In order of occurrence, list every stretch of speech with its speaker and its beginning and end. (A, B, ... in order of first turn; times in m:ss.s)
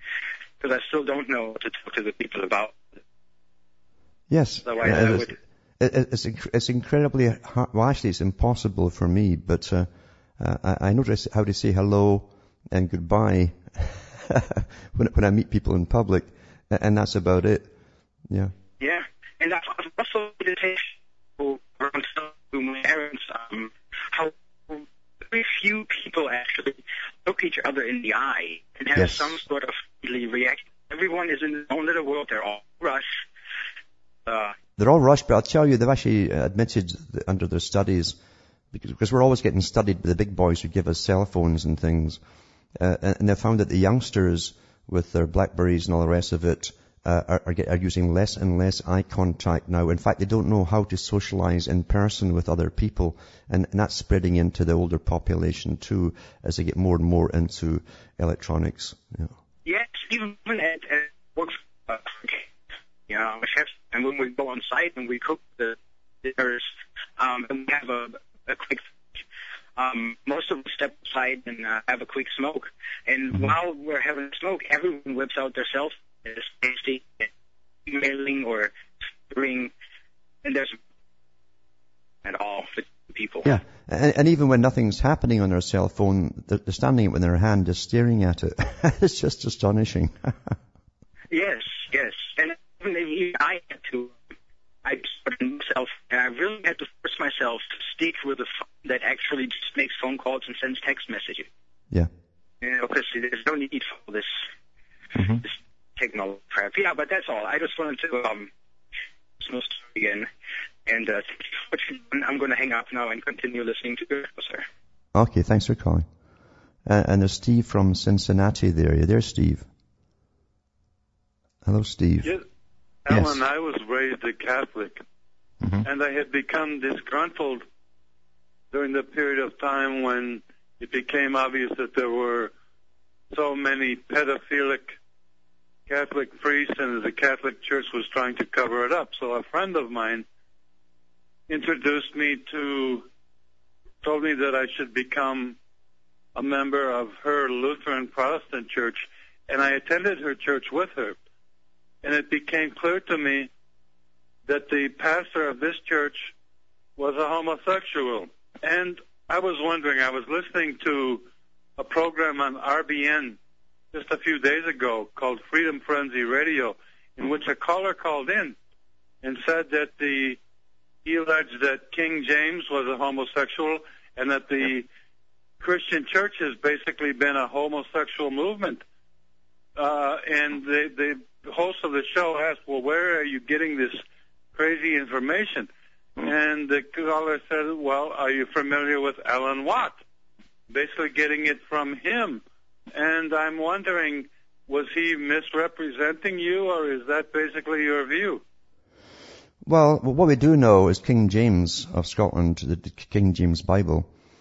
0:00.6-0:02.8 A
0:04.3-0:17.7 B
0:04.7-0:05.4 A
0:18.8-0:33.1 A
0:29.0-0:29.2 B
0:34.3-0:34.6 A
0:34.8-0:38.2 B
0:38.7-0:42.2 B
0:42.8-0:59.3 B
0:59.6-1:02.4 A
1:03.1-1:09.2 A
1:09.8-1:17.3 A
1:17.9-1:18.8 A
1:19.3-1:19.7 A
1:20.4-1:20.8 A
1:22.2-1:23.5 A
1:23.5-1:30.5 B
1:31.3-1:34.2 A
1:34.8-1:41.5 A
1:42.6-1:44.4 A
1:45.4-1:48.5 A
1:49.4-1:50.3 A
1:50.9-1:54.6 A
1:55.1-1:56.1 B
1:56.9-1:59.7 B
2:01.6-2:02.4 B
2:03.1-2:05.0 C
2:05.8-2:07.6 C
2:08.7-2:12.5 C
2:13.3-2:15.0 C
2:15.9-2:20.3 C
2:21.5-2:23.1 C
2:24.0-2:25.6 C
2:26.4-2:31.2 C
2:32.0-2:33.5 C
2:34.5-2:36.3 C
2:37.0-2:41.2 C
2:41.8-2:43.4 C
2:43.9-2:48.6 C
2:49.2-2:50.4 C
2:51.0-2:54.9 C
2:55.6-2:58.8 C
2:59.8-3:10.0 C
3:10.7-3:18.4 C
3:19.7-3:24.1 B